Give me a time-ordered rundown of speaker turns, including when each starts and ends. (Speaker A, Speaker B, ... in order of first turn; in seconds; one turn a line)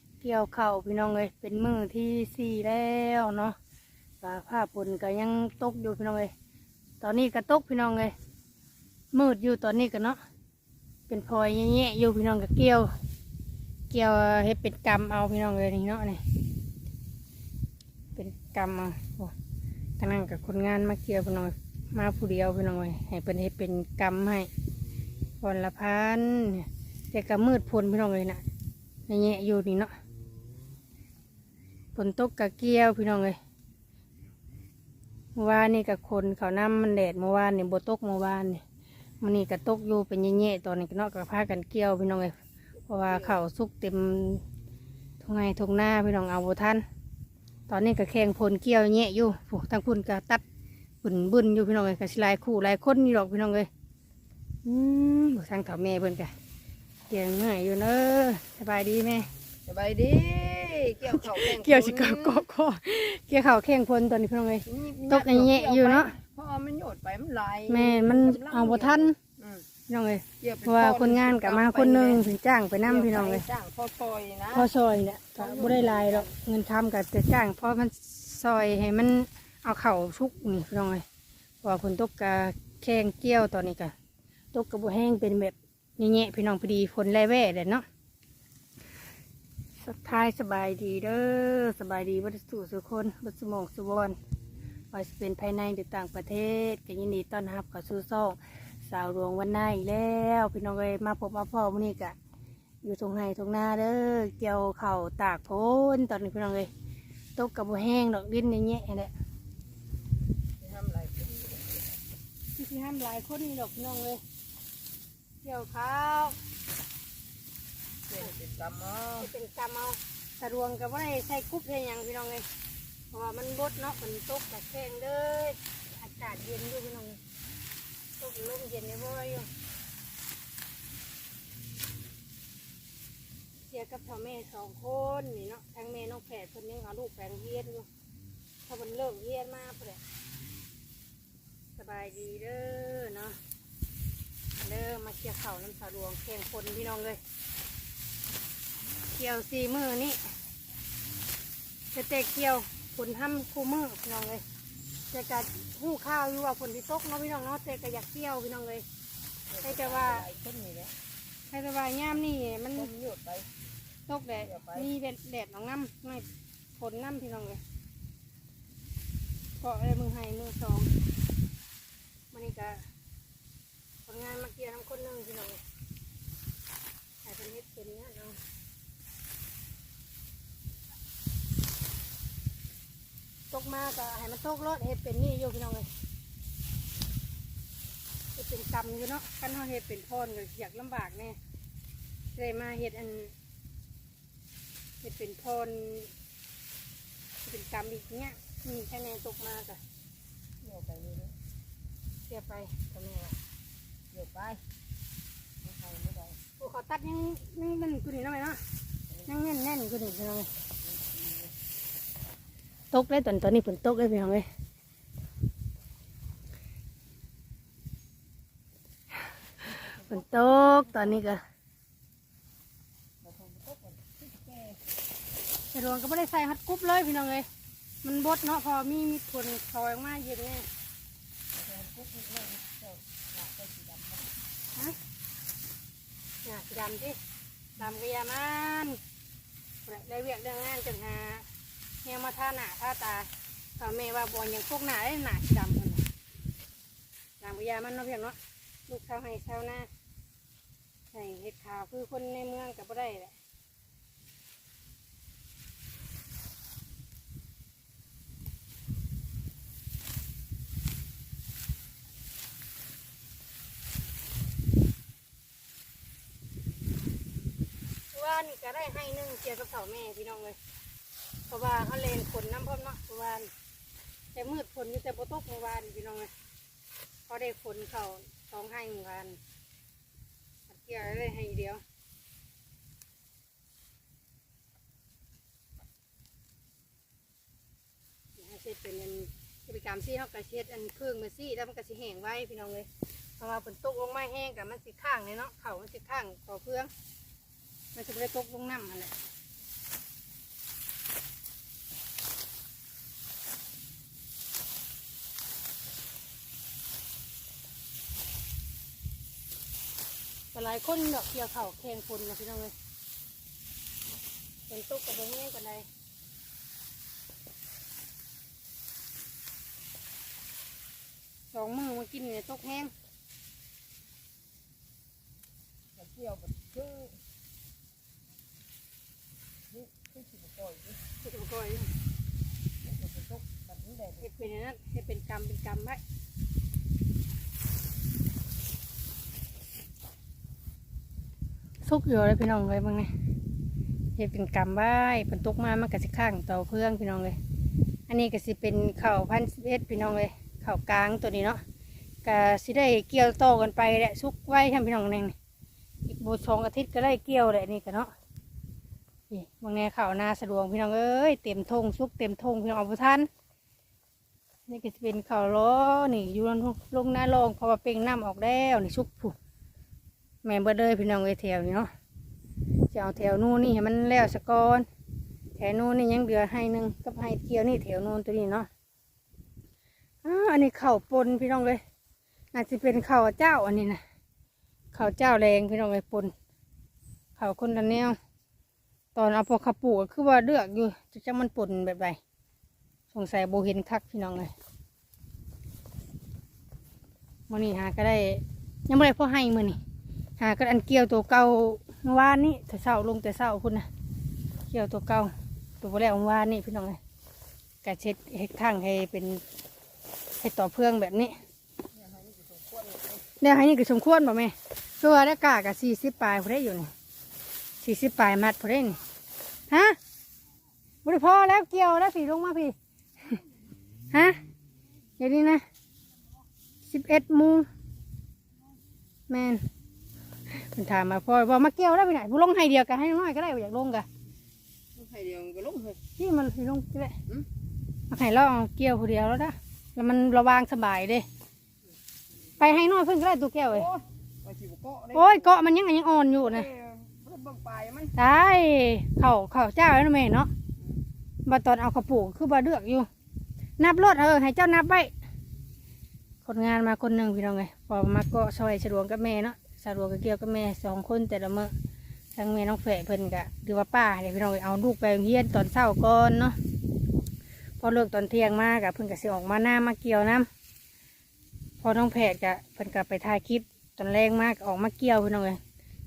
Speaker A: 0.2-3.6
Speaker A: 4.2-6.3
Speaker A: 7.0-8.2
Speaker A: 9.1-10.2
Speaker A: 11.1-12.9
Speaker A: 13.9-16.2
Speaker A: 18.1-19.3
Speaker A: 20.0-24.5
Speaker A: 25.4-28.4
Speaker A: 29.1-29.9
Speaker A: 32.0-33.4
Speaker A: 35.4-38.6
Speaker A: 39.2-42.3
Speaker A: 42.9-44.4
Speaker A: 45.2-46.9
Speaker A: 47.7-50.4
Speaker A: 51.0-53.7
Speaker A: 54.6-56.3
Speaker A: 57.1-59.3
Speaker B: 59.7-62.5
Speaker A: 61.1-66.2
Speaker B: 64.7-69.7
Speaker A: 67.7-69.2
Speaker A: 69.9-73.5
Speaker B: 70.4-72.2
Speaker B: 72.8-74.7
Speaker A: 74.5-81.0
Speaker B: 75.4-76.3
Speaker A: 81.6-83.9
Speaker A: 84.5-87.8
Speaker A: 89.8-94.2
Speaker A: 94.9-102.2
Speaker A: 102.8-106.7
Speaker A: 107.4-109.1
Speaker B: 110.6-111.9
Speaker A: 112.5-114.2
Speaker A: 115.4-116.4
Speaker B: 118.1-119.3
Speaker A: 119.2-122.5
Speaker A: 123.1-127.2
Speaker A: 128.2-129.5
Speaker A: 133.7-137.9
Speaker A: 138.7-140.0
Speaker A: 141.8-143.4
Speaker A: 144.6-147.2
Speaker A: 149.2-150.3
Speaker A: 151.9-154.4
Speaker A: 155.1-158.8
Speaker B: 159.5-160.9
Speaker A: 159.6-160.3
Speaker A: 161.5-162.9
Speaker B: 162.8-163.5
Speaker A: 164.1-166.3
Speaker B: 164.4-164.9
Speaker A: 166.8-167.6
Speaker A: 169.6-170.9
Speaker A: 172.3-172.8
Speaker A: 174.1-175.6
Speaker A: 177.2-178.4
Speaker A: 183.5-185.9
Speaker A: 188.4-191.4
Speaker A: 192.3-193.3
Speaker A: 195.0-196.1
Speaker A: 197.4-199.8
Speaker B: 200.6-201.4
Speaker A: 202.3-203.4
Speaker B: 204.1-204.6
Speaker B: 205.6-206.4
Speaker A: 206.6-208.6
Speaker A: 209.3-210.5
Speaker B: 210.8-211.5
Speaker A: 212.9-214.5
Speaker A: 219.7-221.4
Speaker B: 219.7-220.9
Speaker B: 223.2-224.8
Speaker A: 225.7-227.5
Speaker A: 228.0-230.7
Speaker B: 231.5-234.4
Speaker A: 236.4-237.2
Speaker A: 237.8-239.0
Speaker A: 239.9-241.5
Speaker A: 242.0-246.1
Speaker A: 247.4-248.4
Speaker A: 248.9-249.9
Speaker A: 251.1-253.3
Speaker A: 268.1-270.6
Speaker A: 271.5-273.5
Speaker A: 274.3-276.3
Speaker A: 277.3-279.4
Speaker A: 280.7-281.8
Speaker A: 288.4-296.9
Speaker A: 297.9-299.1
Speaker A: 310.5-312.7
Speaker A: 314.7-315.9
Speaker A: 321.5-322.9
Speaker B: 325.9-327.2
Speaker B: 329.7-331.0
Speaker A: 331.2-331.9
Speaker B: 332.8-334.3
Speaker A: 334.2-336.0
Speaker A: 341.9-343.1
Speaker A: 344.2-347.4
Speaker A: 348.1-351.6
Speaker A: 352.2-355.4
Speaker A: 356.1-358.1
Speaker A: 359.3-363.3
Speaker A: 364.7-369.4
Speaker A: 370.4-371.9
Speaker A: 372.9-374.9
Speaker A: 375.6-378.7
Speaker A: 380.2-381.8
Speaker A: 382.5-384.0
Speaker A: 384.9-386.3
Speaker A: 387.4-388.2
Speaker A: 389.1-392.2
Speaker A: 393.1-394.5
Speaker A: 397.5-399.8
Speaker A: 400.4-403.9
Speaker A: 404.7-407.0
Speaker A: 407.8-409.4
Speaker A: 410.4-411.4
Speaker B: 411.9-413.3
Speaker A: 413.4-416.9
Speaker A: 417.8-419.0
Speaker A: 419.7-420.0
Speaker A: 421.1-422.8
Speaker A: 424.1-424.4
Speaker A: 425.2-425.6
Speaker A: 426.8-427.7
Speaker A: 429.3-429.7
Speaker A: 430.5-434.1
Speaker B: 434.9-436.0
Speaker A: 436.2-437.2
Speaker A: 438.1-441.3
Speaker A: 442.6-443.9
Speaker B: 443.7-445.5
Speaker A: 445.1-446.7
Speaker B: 446.4-448.1
Speaker A: 448.1-450.5
Speaker A: 451.5-453.1
Speaker A: 453.8-455.1
Speaker A: 456.4-461.7
Speaker A: 462.4-466.6
Speaker A: 467.8-470.5
Speaker A: 471.8-475.6